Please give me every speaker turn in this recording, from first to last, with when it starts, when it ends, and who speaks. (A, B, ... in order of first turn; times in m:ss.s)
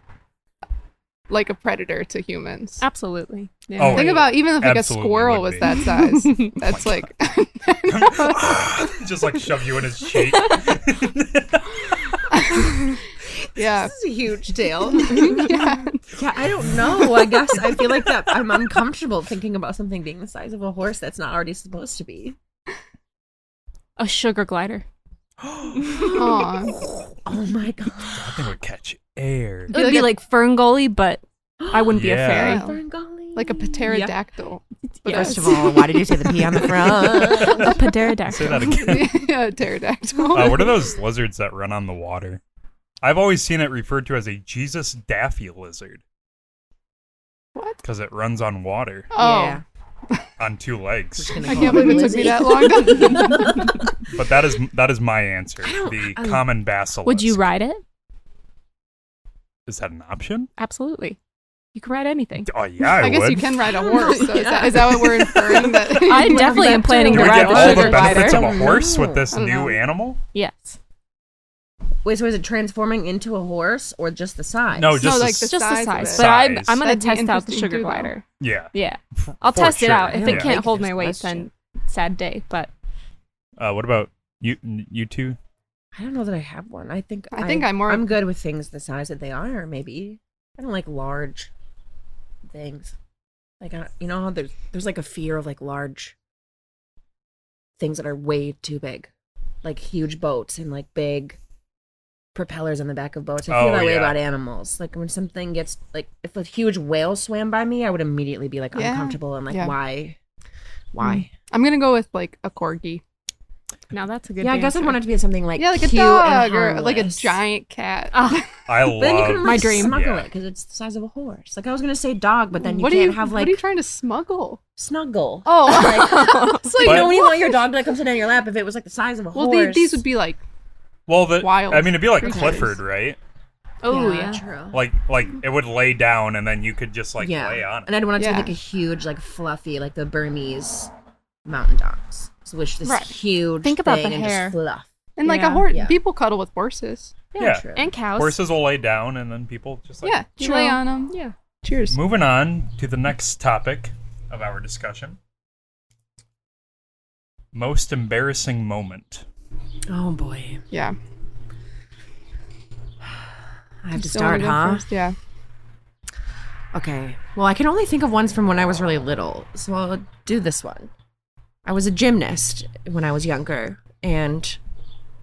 0:01.3-0:02.8 A
0:02.8-0:04.3 B
0:03.8-0:05.9 C
0:03.9-0:08.8 A
0:06.1-0:06.5 B
0:06.5-0:07.1 C
0:07.8-0:12.2 C
0:12.3-0:13.0 A
0:13.5-0:13.9 A
0:13.6-0:15.5 D
0:14.9-0:16.0 A
0:16.1-0:22.4 D
0:24.0-0:24.8 B
0:25.8-0:28.3 D
0:26.1-0:26.8 A
0:28.0-0:29.8 C
0:29.7-0:32.6 B
0:29.7-0:30.1 A
0:31.6-0:34.1 D
0:31.9-0:32.6 C
0:32.4-0:32.8 A
0:33.3-0:35.8 A
0:35.0-0:35.7 B
0:35.1-0:37.8 D
0:36.9-0:38.8 B
0:38.3-0:39.2 C
0:38.6-0:40.8 A
0:40.3-0:42.4 C
0:43.0-0:46.0 C
0:47.8-0:49.1 C
0:49.1-0:49.6 A
0:49.2-0:49.6 D
0:50.4-0:51.5 C
0:51.2-0:53.7 D
0:51.4-0:53.8 A
0:51.5-0:53.3 B
0:54.1-0:57.4 C
0:55.6-0:56.5 D
0:57.0-0:57.8 B
0:59.7-1:00.5 C
1:00.6-1:01.2 B
1:01.7-1:02.5 B
1:02.4-1:03.5 C
1:02.9-1:08.0 A
1:03.8-1:09.3 D
1:04.0-1:04.5 B
1:05.9-1:08.5 B
1:07.1-1:10.2 C
1:09.3-1:09.8 A
1:10.3-1:10.8 B
1:12.0-1:15.1 D
1:14.7-1:16.8 C
1:15.0-1:18.1 A
1:15.4-1:22.7 B
1:18.4-1:20.6 C
1:20.1-1:21.5 D
1:23.6-1:25.4 C
1:25.9-1:31.5 D
1:27.3-1:28.1 A
1:32.5-1:32.9 D
1:33.6-1:36.1 D
1:37.8-1:39.1 D
1:39.6-1:41.4 D
1:42.3-1:50.2 D
1:43.5-1:44.2 C
1:48.7-1:49.7 A
1:50.9-1:51.3 D
1:51.4-1:53.0 A
1:53.9-1:55.0 B
1:54.4-1:57.4 D
1:55.6-1:58.5 A
1:58.1-1:58.4 B
1:58.7-2:00.2 C
1:58.9-2:03.6 D
1:59.4-2:00.0 B
2:02.6-2:04.6 A
2:04.8-2:10.0 D
2:05.4-2:07.6 A
2:05.6-2:06.8 B
2:06.8-2:07.1 C
2:09.3-2:10.4 A
2:11.1-2:13.2 C
2:11.4-2:12.8 A
2:12.2-2:12.6 D
2:13.8-2:14.4 B
2:13.9-2:14.8 D
2:14.7-2:17.9 C
2:17.2-2:20.9 D
2:18.2-2:18.5 A
2:21.4-2:24.9 D
2:22.8-2:24.6 B
2:25.2-2:27.1 A
2:25.2-2:25.6 B
2:25.7-2:26.0 D
2:27.3-2:27.9 D
2:27.4-2:30.2 C
2:27.7-2:28.4 B
2:30.0-2:31.9 A
2:30.4-2:31.3 B
2:31.9-2:35.2 C
2:37.5-2:39.2 C
2:39.9-2:40.6 D
2:40.7-2:41.0 A
2:43.8-2:44.8 D
2:43.9-2:45.2 A
2:46.7-2:50.9 D
2:51.6-2:54.6 D